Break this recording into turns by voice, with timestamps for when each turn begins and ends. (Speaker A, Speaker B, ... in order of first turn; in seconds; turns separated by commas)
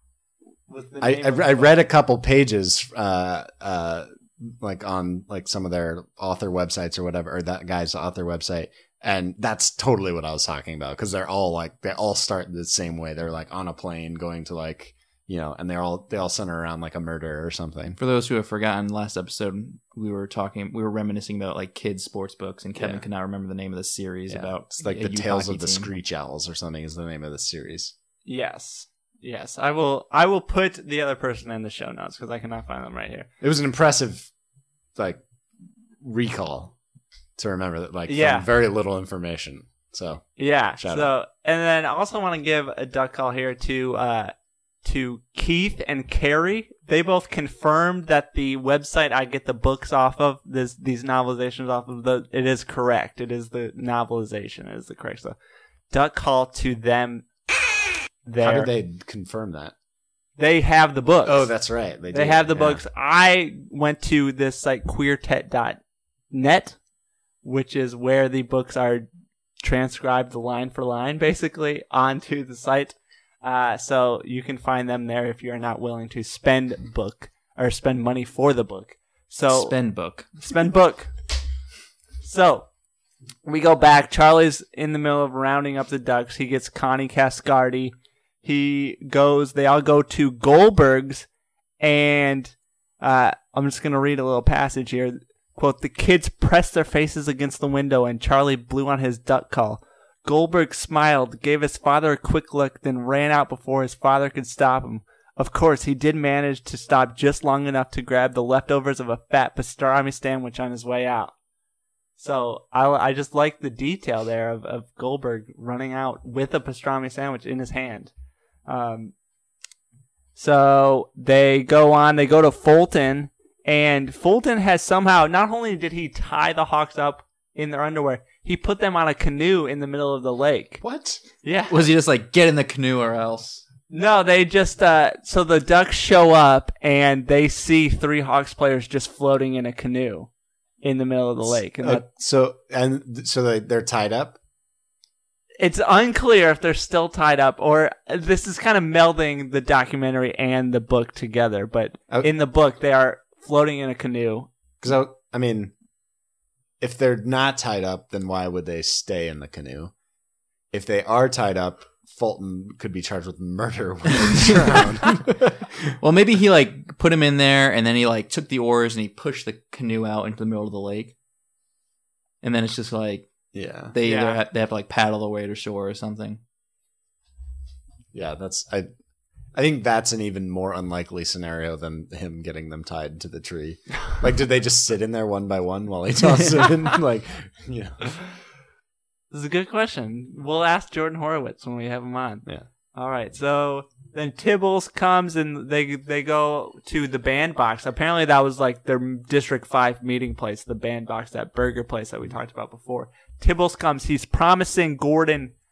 Speaker A: 0.7-1.8, Speaker B: 1.0-18.0, Speaker C: 18.0-25.9, Speaker B: 22.8-23.1, Speaker B: 24.3-27.9, Speaker A: 28.2-33.3, Speaker B: 33.4-34.3, Speaker B: 35.0-35.2, Speaker B: 36.0-36.8, Speaker B: 37.4-41.1, Speaker A: 38.1-38.5, Speaker A: 40.4-44.3, Speaker A: 44.8-55.4, Speaker A: 55.9-57.2, Speaker A: 58.2-58.7, Speaker B: 58.4-59.7, Speaker A: 60.4-61.5, Speaker B: 61.2-62.8, Speaker A: 62.1-66.8, Speaker A: 67.4-69.1, Speaker A: 69.6-79.7, Speaker C: 79.5-80.3, Speaker A: 80.4-81.1, Speaker A: 82.2-82.7, Speaker A: 83.4-91.3, Speaker A: 91.8-111.3, Speaker A: 112.2-118.1, Speaker A: 118.7-119.1, Speaker A: 120.3-130.8, Speaker B: 130.8-131.2, Speaker A: 131.4-131.8, Speaker C: 131.7-133.6, Speaker A: 133.9-140.3, Speaker A: 140.8-142.0, Speaker B: 141.4-144.4, Speaker A: 145.6-154.5, Speaker B: 154.8-155.7, Speaker B: 156.8-159.9, Speaker B: 160.7-165.7, Speaker C: 166.0-171.1, Speaker C: 172.4-173.3, Speaker B: 173.5-173.9, Speaker C: 173.9-176.4, Speaker A: 174.0-174.4, Speaker B: 178.1-178.9, Speaker B: 179.5-188.0, Speaker A: 189.3-192.4, Speaker A: 192.9-205.5